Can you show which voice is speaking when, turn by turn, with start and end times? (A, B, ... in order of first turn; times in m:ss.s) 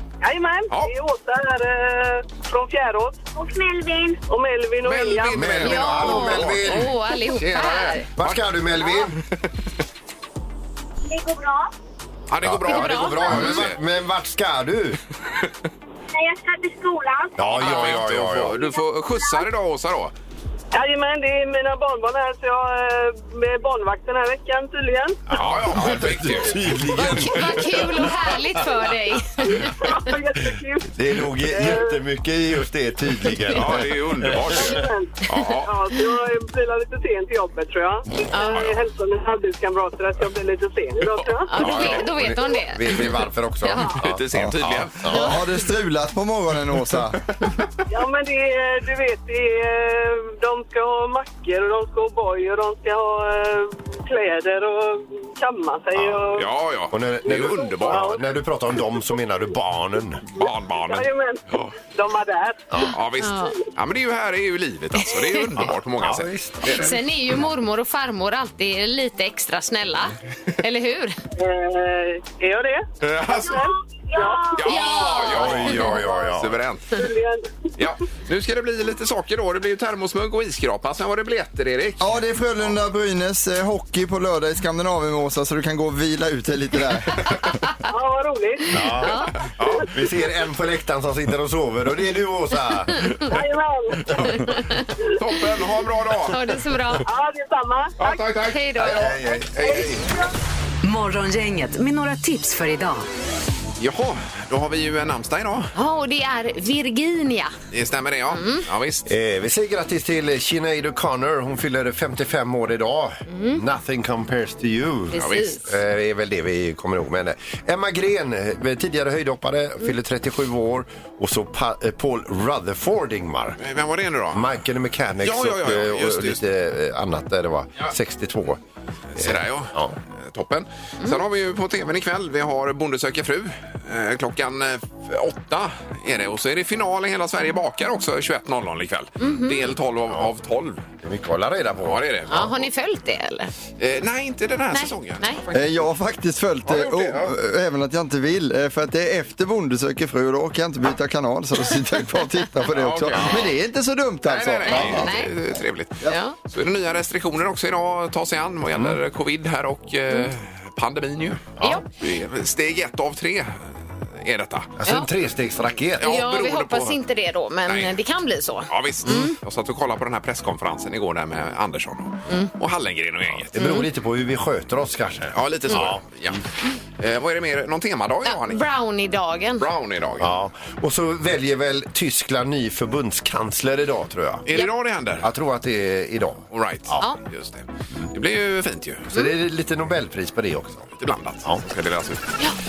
0:00.2-0:03.2 A
0:03.4-0:04.2 B
0:04.3-0:05.5 A
0:04.8-0:09.2 C
0:05.3-0:06.9 D
0:05.6-0:08.1 E
0:07.5-0:09.2 D
0:11.1-0:11.7 B
0:12.3-0:13.8 C
0:12.4-0:15.0 D
0:12.6-0:13.7 E
0:16.1-0:17.5 B
0:17.4-0:18.6 D
0:17.4-0:20.1 C
0:20.7-0:25.2 A
0:25.3-0:28.6 D
0:25.3-0:26.8 C
0:26.9-0:29.7 E
0:29.4-0:32.0 A
0:30.9-0:34.7 D
0:33.5-0:35.7 C
0:34.5-0:41.9 A
0:38.3-0:38.7 E
0:41.0-0:42.1 C
0:41.5-0:43.1 E
0:41.6-0:45.4 D
0:43.6-0:44.0 E
0:44.0-0:45.0 C
0:44.3-0:47.3 F
0:45.1-0:45.4 E
0:47.9-0:56.5 A
0:56.3-0:58.2 C
0:56.9-1:00.2 D
0:57.6-0:58.2 A
1:00.4-1:01.7 C
1:00.4-1:02.8 A
1:02.9-1:07.0 C
1:03.2-1:03.6 E
1:05.0-1:05.5 E
1:05.6-1:07.0 D
1:06.7-1:11.2 E
1:11.4-1:14.7 A
1:13.0-1:13.6 C
1:14.6-1:17.0 C
1:14.6-1:16.0 E
1:15.3-1:16.6 D
1:16.0-1:16.3 A
1:16.9-1:17.7 A
1:17.8-1:22.7 C
1:22.0-1:27.5 F
1:27.9-1:28.8 A
1:28.7-1:33.2 D
1:28.8-1:29.4 E
1:29.4-1:29.9 C
1:33.3-1:34.2 A
1:34.2-1:34.6 C
1:34.4-1:34.9 E
1:35.2-1:36.4 C
1:36.3-1:37.1 E
1:37.1-1:38.4 A
1:38.0-1:40.0 C
1:38.5-1:39.2 E
1:38.8-1:39.6 D
1:39.6-1:40.0 A
1:40.8-1:43.1 G
1:43.8-1:45.7 C
1:45.8-1:47.5 E
1:47.7-1:49.1 C
1:48.3-1:48.7 E
1:49.1-2:03.6 D
1:53.3-1:53.6 E
1:55.1-1:55.6 E
1:55.2-1:55.6 C
2:03.6-2:04.5 C
2:04.3-2:08.6 D
2:05.2-2:06.4 C
2:09.1-2:20.8 C
2:09.2-2:10.0 D
2:19.2-2:19.6 E
2:21.0-2:22.0 D
2:21.8-2:22.6 C
2:22.3-2:23.5 E
2:23.8-2:25.9 C
2:24.7-2:25.4 E
2:25.5-2:35.3 F
2:26.7-2:27.3 C
2:32.7-2:33.6 C
2:34.2-2:44.7 C
2:34.7-2:35.3 E
2:36.0-2:36.4 E
2:38.7-2:39.0 D
2:41.6-2:41.8 D
2:41.6-2:41.9 E
2:44.8-2:46.1 D
2:45.9-2:47.0 C
2:46.0-2:49.4 E
2:47.7-2:48.0 C
2:48.7-2:53.5 C
2:53.4-2:56.4 D
2:53.6-2:53.9 E
2:55.3-2:56.4 C
2:57.0-2:58.6 C
2:58.3-2:59.7 E
2:59.6-3:00.3 C
3:00.2-3:04.5 D
3:04.5-3:05.3 C
3:05.2-3:07.0 D
3:06.5-3:09.1 C
3:09.1-3:10.9 D
3:11.0-3:12.2 C